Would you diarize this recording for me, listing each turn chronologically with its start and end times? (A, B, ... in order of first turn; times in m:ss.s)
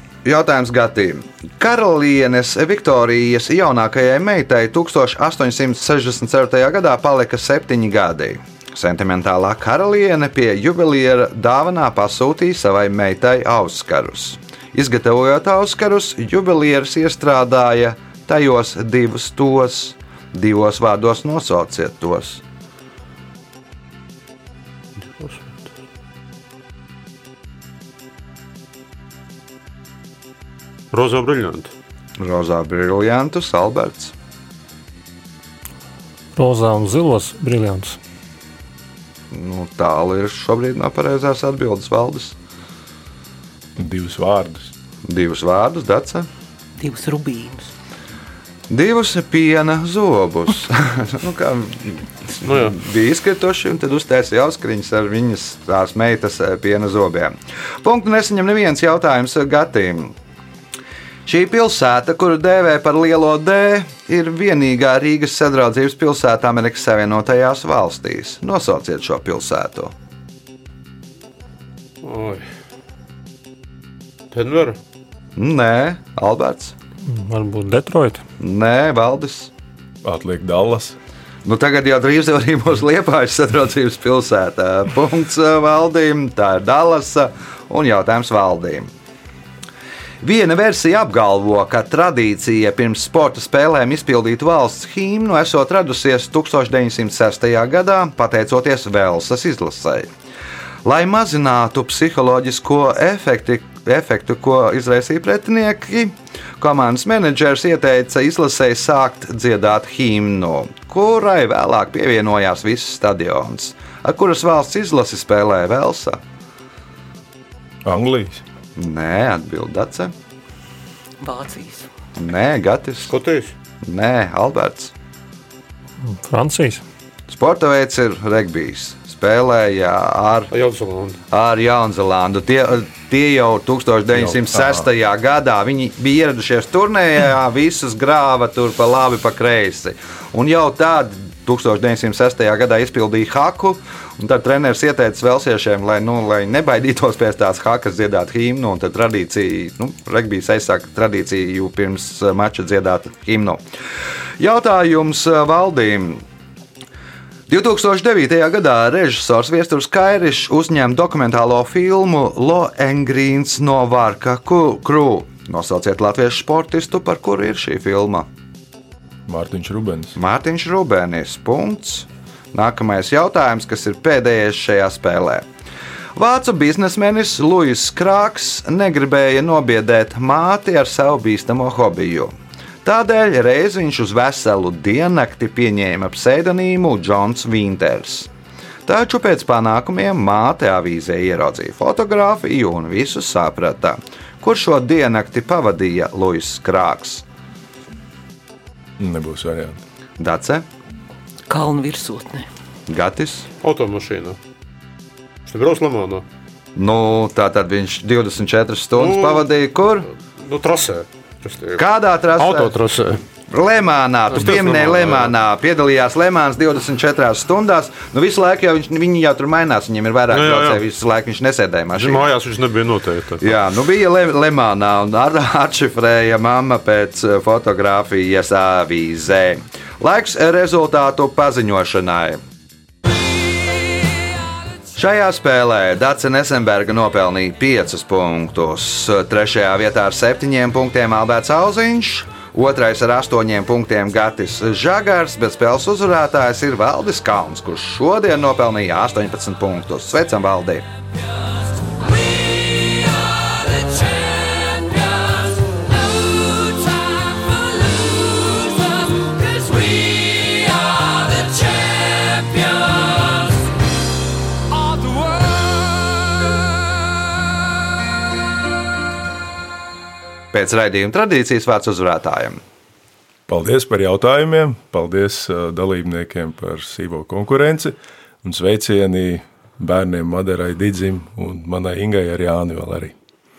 0:00.2-0:22.4 A
0:25.0-0:25.7 B
0:30.9-0:31.7 B
0:32.2-0:34.1 A
0:36.3-0:38.0 C
0:39.3-0:42.4 A
0:43.8-0:44.7 D
0:45.0-0:46.3 A
0:46.8-0:47.7 E
0:48.7-1:00.1 A
0:52.4-0:52.8 B
1:01.2-1:09.9 A
1:12.0-1:12.4 B
1:14.3-1:14.8 B
1:15.4-1:16.7 A
1:17.0-1:18.2 C
1:18.4-1:19.5 A
1:20.0-1:21.0 D
1:21.4-1:28.9 A
1:30.2-1:40.1 A
1:40.8-1:56.2 A
1:57.8-1:58.4 D
1:58.8-2:00.1 A
2:01.2-2:01.9 E
2:02.2-2:03.1 A
2:03.1-2:03.5 B
2:03.8-2:04.9 A
2:06.0-2:06.8 C
2:07.3-2:10.5 A
2:10.5-2:11.2 B
2:11.3-2:33.6 A
2:14.2-2:14.8 D
2:34.4-2:36.2 A
2:37.5-2:48.3 A
2:49.3-2:50.2 D
2:50.2-2:55.4 A
2:56.2-3:08.3 A
3:08.8-3:17.2 A
3:19.0-3:19.8 D
3:20.2-3:20.6 A
3:21.5-3:22.5 E
3:22.9-3:23.5 A
3:23.6-3:24.4 B
3:25.4-3:26.2 B
3:26.8-3:30.1 A
3:29.0-3:29.4 B
3:30.4-3:31.8 B
3:31.8-3:32.8 A
3:32.4-3:33.2 B
3:33.5-3:42.3 A
3:34.3-3:35.3 B
3:40.3-3:40.8 B
3:41.9-3:43.5 B
3:43.4-3:52.4 A
3:54.9-4:10.8 A
4:30.5-4:32.6 A
4:33.5-4:43.1 D